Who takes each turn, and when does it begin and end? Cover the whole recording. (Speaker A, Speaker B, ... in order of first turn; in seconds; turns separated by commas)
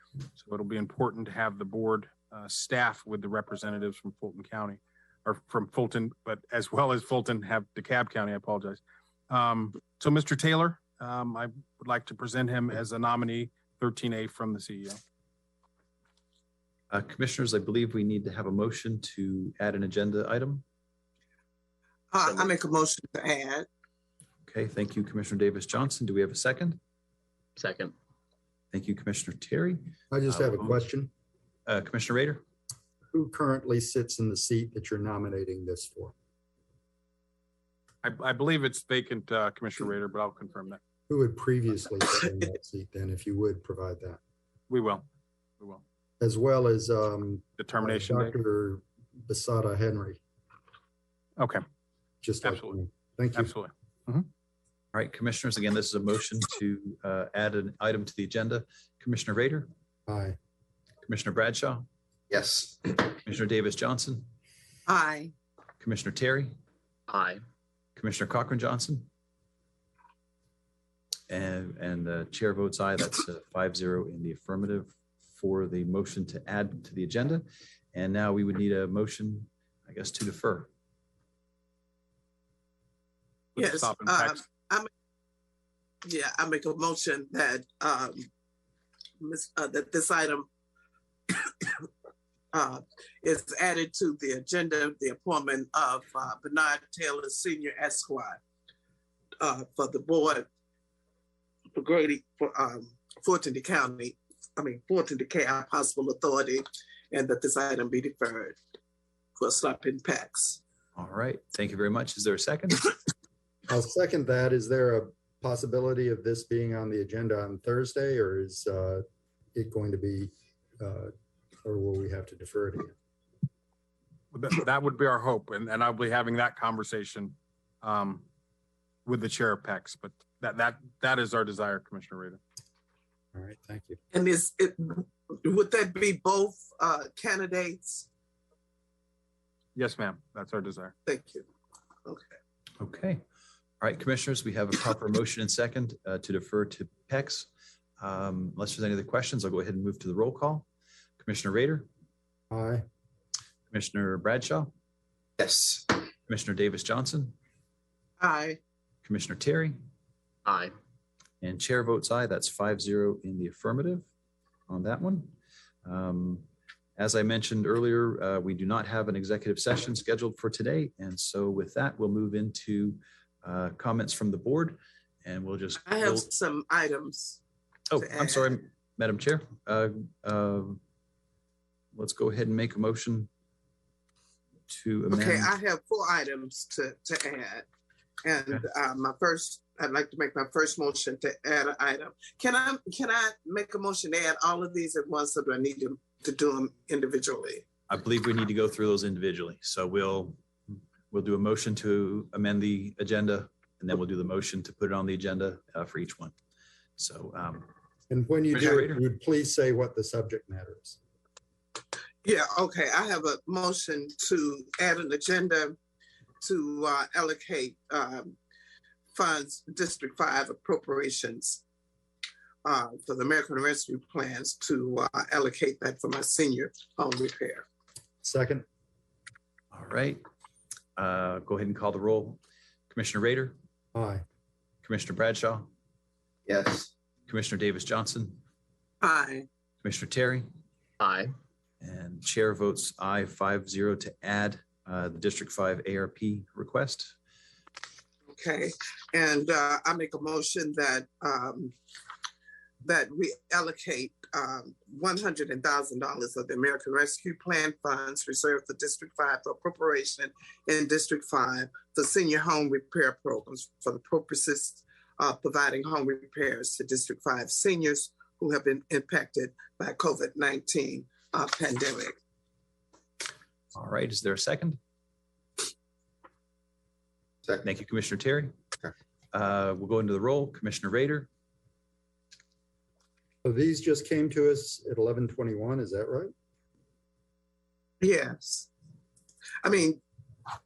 Speaker A: 0.3-15.0, Speaker B: 16.9-20.6, Speaker C: 22.1-23.7, Speaker D: 22.2-22.5, Speaker B: 24.5-26.8, Speaker D: 27.6-27.9, Speaker B: 28.7-30.8, Speaker E: 30.1-31.1, Speaker B: 31.7-32.4, Speaker E: 33.1-36.1, Speaker A: 38.0-40.8, Speaker E: 41.1-44.2, Speaker A: 44.7-45.0, Speaker E: 46.2-50.2, Speaker A: 47.6-48.4, Speaker E: 52.2-53.5, Speaker A: 52.4-52.8, Speaker A: 53.4-54.3, Speaker B: 54.9-59.7, Speaker E: 60.1-60.4, Speaker B: 61.0-61.8, Speaker D: 62.3-62.9, Speaker B: 63.1-64.2, Speaker C: 64.9-65.3, Speaker B: 65.8-66.5, Speaker D: 67.1-67.4, Speaker B: 68.0-69.1, Speaker B: 71.3-80.7, Speaker A: 83.5-84.4, Speaker C: 83.6-84.9, Speaker C: 86.0-88.3, Speaker C: 89.2-90.5, Speaker C: 91.3-91.8, Speaker C: 92.5-98.4, Speaker C: 99.4-100.5, Speaker C: 101.8-108.6, Speaker C: 109.4-110.6, Speaker B: 111.0-113.0, Speaker E: 113.7-119.0, Speaker E: 119.5-121.1, Speaker E: 121.6-122.9, Speaker A: 124.3-128.2, Speaker A: 129.0-132.4, Speaker E: 133.3-134.0, Speaker C: 134.1-138.1, Speaker A: 139.7-140.9, Speaker C: 141.1-141.4, Speaker C: 142.1-142.3, Speaker B: 142.8-143.2, Speaker B: 143.8-147.5, Speaker B: 148.0-150.7, Speaker B: 151.2-151.9, Speaker E: 152.5-152.8, Speaker B: 153.7-154.7, Speaker D: 155.4-155.9, Speaker B: 156.3-157.3, Speaker C: 158.2-158.6, Speaker B: 159.0-159.8, Speaker D: 160.4-160.7, Speaker B: 161.4-164.1, Speaker B: 164.7-166.4, Speaker B: 167.0-176.2, Speaker C: 175.8-177.4, Speaker B: 177.9-180.8, Speaker C: 178.0-178.6, Speaker B: 181.9-183.3, Speaker B: 184.7-185.5, Speaker C: 185.1-187.7, Speaker C: 188.2-197.7, Speaker B: 197.9-206.3, Speaker B: 207.0-207.7, Speaker E: 208.1-211.0, Speaker B: 208.5-209.0, Speaker C: 212.2-215.8, Speaker C: 216.4-218.4, Speaker C: 219.1-221.6, Speaker C: 222.6-227.6, Speaker E: 228.2-228.6, Speaker B: 229.7-230.2, Speaker B: 231.0-233.5, Speaker E: 233.9-234.2, Speaker B: 234.8-235.7, Speaker D: 236.5-236.9, Speaker B: 237.3-238.4, Speaker C: 239.0-239.4, Speaker B: 239.8-240.4, Speaker D: 241.0-241.3, Speaker B: 241.8-247.1, Speaker C: 248.3-251.7, Speaker C: 252.8-272.1, Speaker B: 273.7-274.8, Speaker B: 277.6-278.6, Speaker B: 279.3-281.3, Speaker E: 283.4-286.3, Speaker C: 288.0-288.7, Speaker C: 289.6-290.0